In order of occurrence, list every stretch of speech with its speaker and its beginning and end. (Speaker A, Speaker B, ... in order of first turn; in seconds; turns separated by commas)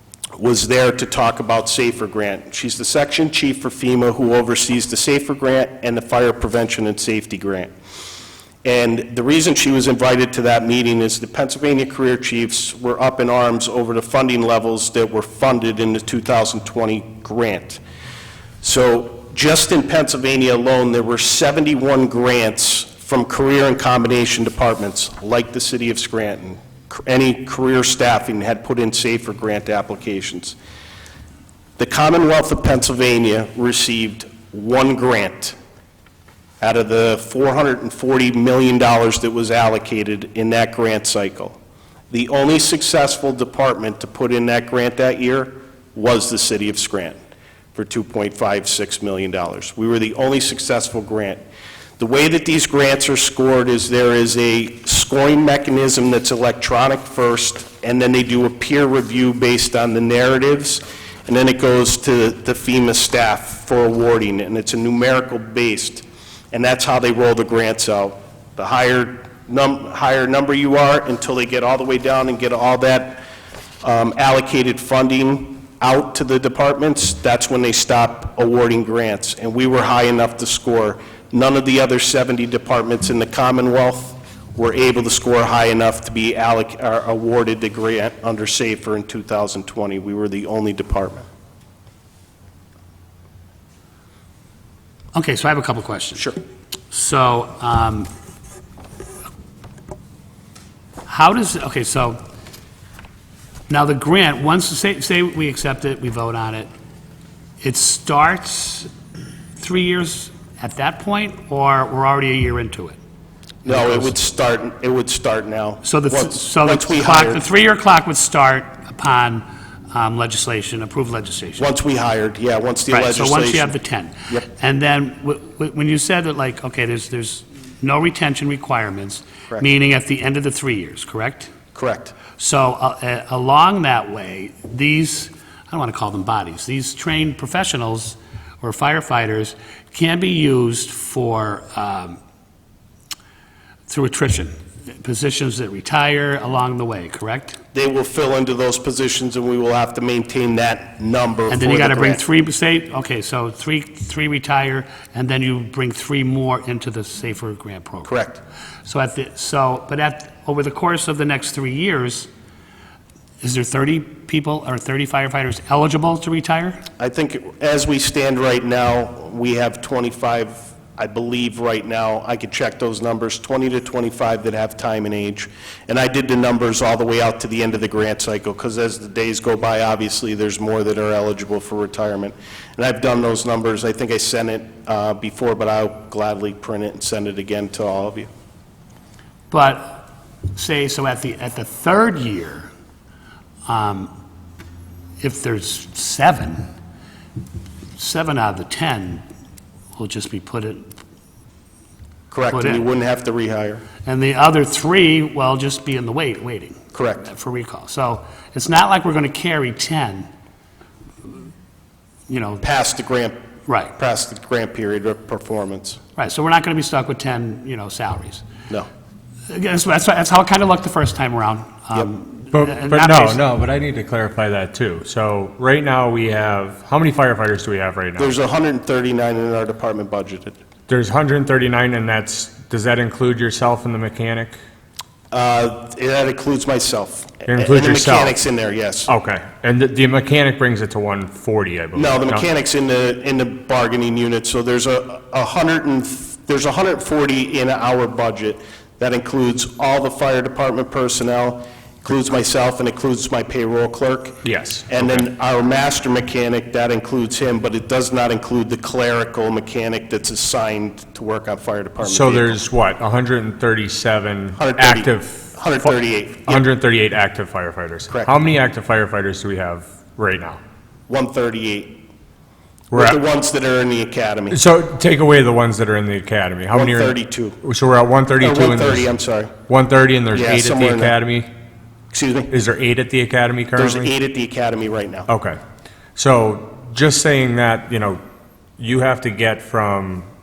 Speaker A: 0.4-7.7, Speaker A: 8.6-17.8, Speaker A: 18.6-30.6, Speaker A: 31.8-35.6, Speaker A: 36.6-41.6, Speaker A: 42.1-47.2, Speaker A: 47.8-51.4, Speaker A: 52.0-73.2, Speaker A: 73.8-91.3, Speaker B: 95.1-96.4, Speaker B: 96.9-98.1, Speaker B: 101.1-102.2, Speaker B: 103.7-106.7, Speaker B: 107.6-108.9, Speaker B: 109.6-113.0, Speaker B: 113.7-114.2, Speaker A: 113.7-117.4, Speaker B: 115.8-121.7, Speaker A: 121.6-123.8, Speaker B: 122.9-131.5, Speaker A: 131.7-132.2, Speaker B: 132.4-142.2, Speaker B: 143.9-147.6, Speaker A: 147.7-152.2, Speaker B: 151.5-158.1, Speaker A: 158.1-158.4, Speaker B: 158.8-162.3, Speaker B: 163.4-166.8, Speaker A: 167.0-188.3, Speaker B: 189.5-192.7, Speaker B: 193.7-194.1, Speaker B: 195.2-196.7, Speaker B: 198.0-199.2, Speaker B: 200.0-201.0, Speaker A: 202.3-203.8, Speaker B: 202.5-202.9, Speaker B: 204.1-210.3, Speaker A: 206.9-207.3, Speaker B: 212.3-212.6, Speaker A: 212.6-213.4, Speaker B: 213.7-213.9, Speaker A: 214.0-216.0, Speaker B: 216.2-218.4, Speaker B: 219.5-223.4, Speaker C: 222.5-228.3, Speaker A: 228.2-230.6, Speaker C: 230.9-234.6, Speaker A: 235.3-239.1, Speaker C: 237.5-238.4, Speaker C: 239.1-242.4, Speaker A: 241.9-262.6, Speaker C: 254.4-255.3, Speaker C: 262.0-265.9, Speaker A: 264.6-266.6, Speaker C: 266.4-270.6, Speaker A: 268.1-268.4, Speaker A: 271.1-272.0, Speaker C: 272.9-273.2, Speaker A: 272.9-274.6, Speaker C: 274.5-279.1, Speaker A: 276.7-277.6, Speaker A: 278.4-279.5, Speaker C: 279.7-281.5, Speaker A: 280.3-281.2, Speaker A: 282.1-282.5, Speaker C: 282.5-284.1, Speaker A: 283.8-285.3, Speaker C: 285.3-285.6, Speaker C: 286.2-288.2, Speaker C: 288.8-290.3